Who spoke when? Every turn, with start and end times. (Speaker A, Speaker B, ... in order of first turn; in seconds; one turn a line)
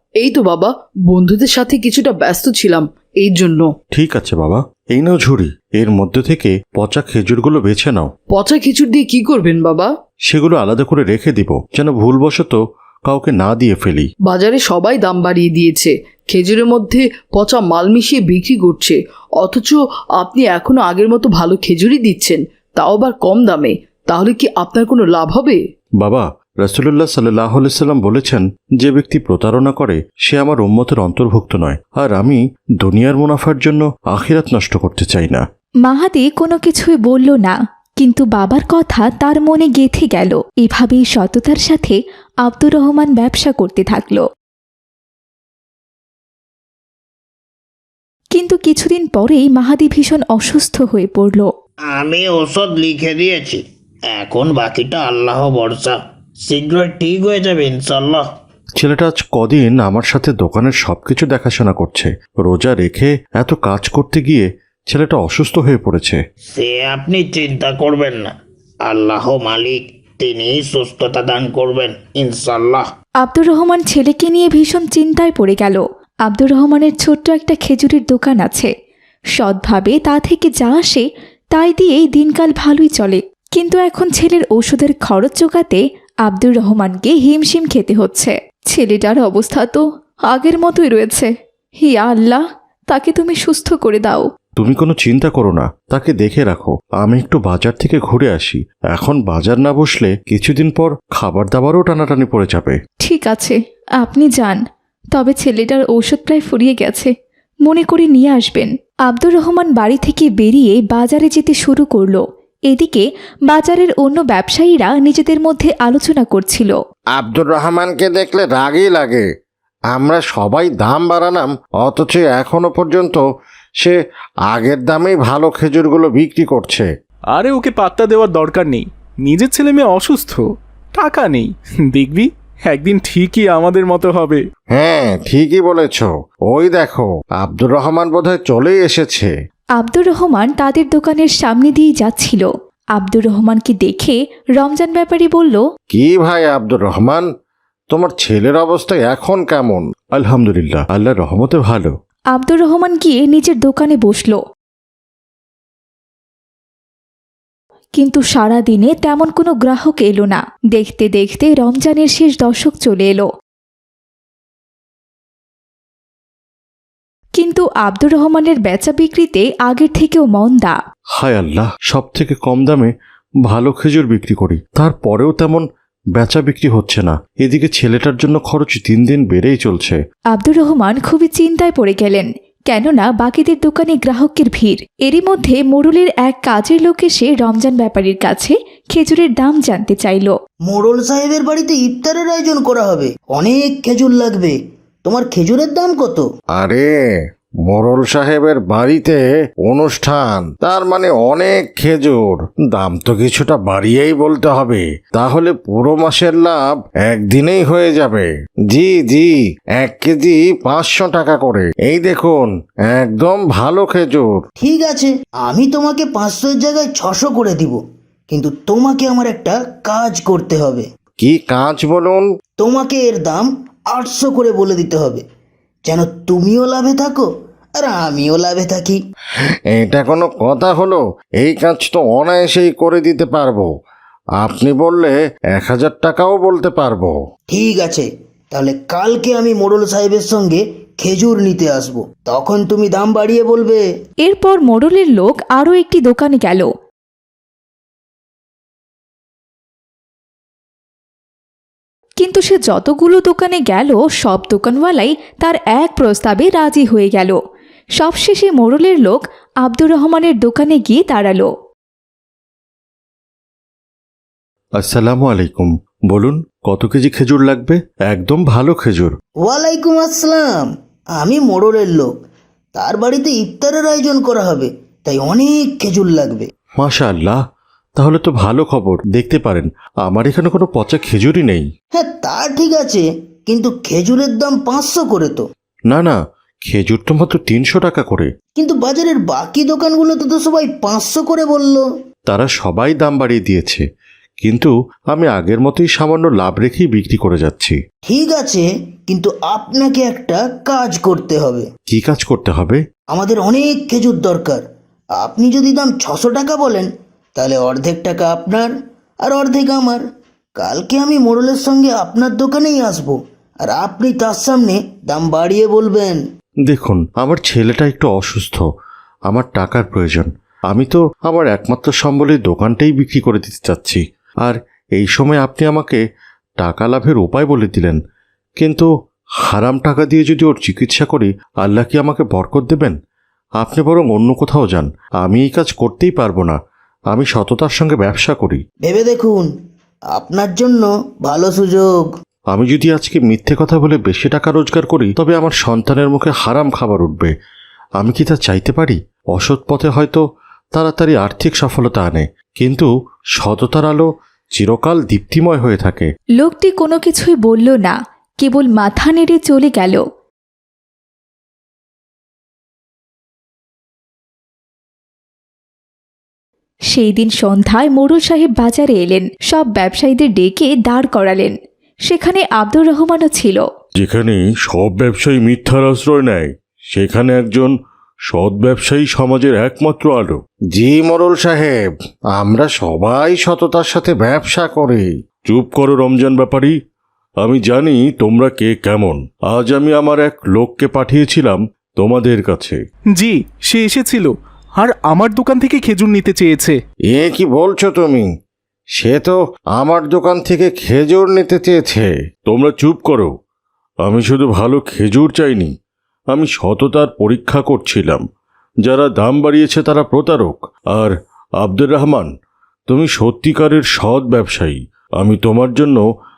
Speaker A: 0.2-3.7
Speaker B: 3.9-8.1
Speaker A: 8.3-9.9
Speaker B: 10.3-14.1
Speaker A: 14.3-25.6
Speaker B: 26.0-35.4
Speaker C: 35.9-44.2
Speaker C: 48.4-51.5
Speaker D: 51.9-58.3
Speaker B: 58.8-66.2
Speaker D: 66.5-72.8
Speaker C: 73.2-78.7
Speaker C: 79.4-91.3
Speaker C: 91.8-94.2
Speaker B: 94.6-102.8
Speaker C: 103.0-104.6
Speaker C: 105.2-107.1
Speaker C: 107.7-116.7
Speaker E: 117.2-119.2
Speaker E: 119.9-123.2
Speaker E: 124.5-126.8
Speaker F: 127.3-130.4
Speaker F: 131.0-134.4
Speaker E: 134.8-139.3
Speaker C: 139.8-145.6
Speaker B: 146.0-147.2
Speaker E: 146.0-146.7
Speaker B: 147.9-148.6
Speaker E: 147.9-149.8
Speaker B: 149.2-151.9
Speaker C: 152.3-154.4
Speaker C: 158.0-163.3
Speaker C: 167.4-170.8
Speaker B: 171.2-172.9
Speaker B: 173.4-180.0
Speaker C: 180.3-190.3
Speaker G: 190.7-196.3
Speaker B: 197.7-198.0
Speaker E: 197.7-199.2
Speaker B: 198.5-199.1
Speaker B: 199.7-200.9
Speaker E: 199.7-206.6
Speaker B: 201.8-202.1
Speaker B: 202.8-203.8
Speaker E: 207.1-209.3
Speaker E: 209.8-212.5
Speaker E: 213.0-214.2
Speaker G: 214.6-220.9
Speaker E: 221.2-222.2
Speaker G: 222.6-225.2
Speaker G: 225.9-229.0
Speaker E: 229.8-233.7
Speaker E: 234.4-237.1
Speaker G: 237.5-243.8
Speaker C: 244.3-246.7
Speaker C: 252.2-257.4
Speaker C: 258.0-261.5
Speaker B: 264.8-269.2
Speaker G: 269.4-272.1
Speaker G: 272.8-276.5
Speaker B: 276.8-277.4
Speaker B: 278.0-281.7
Speaker G: 281.9-285.4
Speaker B: 285.9-288.3
Speaker G: 288.6-291.9
Speaker B: 292.3-293.8
Speaker B: 294.4-297.8
Speaker G: 298.1-301.7
Speaker B: 301.9-302.8
Speaker G: 303.1-304.6
Speaker G: 305.2-308.7
Speaker G: 309.2-310.0
Speaker G: 310.6-316.2
Speaker B: 316.7-318.7
Speaker B: 319.3-326.0
Speaker B: 326.6-328.0
Speaker B: 328.6-328.9
Speaker B: 329.5-332.9
Speaker B: 333.6-336.6
Speaker B: 337.1-338.6
Speaker G: 338.8-339.5
Speaker G: 340.1-342.1
Speaker B: 342.5-347.3
Speaker B: 348.0-350.2
Speaker B: 350.8-356.1
Speaker C: 356.4-360.0
Speaker C: 366.9-371.6
Speaker C: 372.1-373.6
Speaker B: 374.0-377.7
Speaker B: 378.3-380.4
Speaker E: 380.8-381.7
Speaker B: 382.4-383.7
Speaker E: 383.5-385.0
Speaker B: 385.5-386.8
Speaker B: 387.4-392.8
Speaker F: 393.1-396.8
Speaker B: 397.2-398.2
Speaker B: 399.0-401.3
Speaker E: 401.3-401.9
Speaker B: 401.9-403.3
Speaker B: 404.1-405.7
Speaker B: 406.3-408.2
Speaker B: 408.8-412.3
Speaker B: 412.9-416.0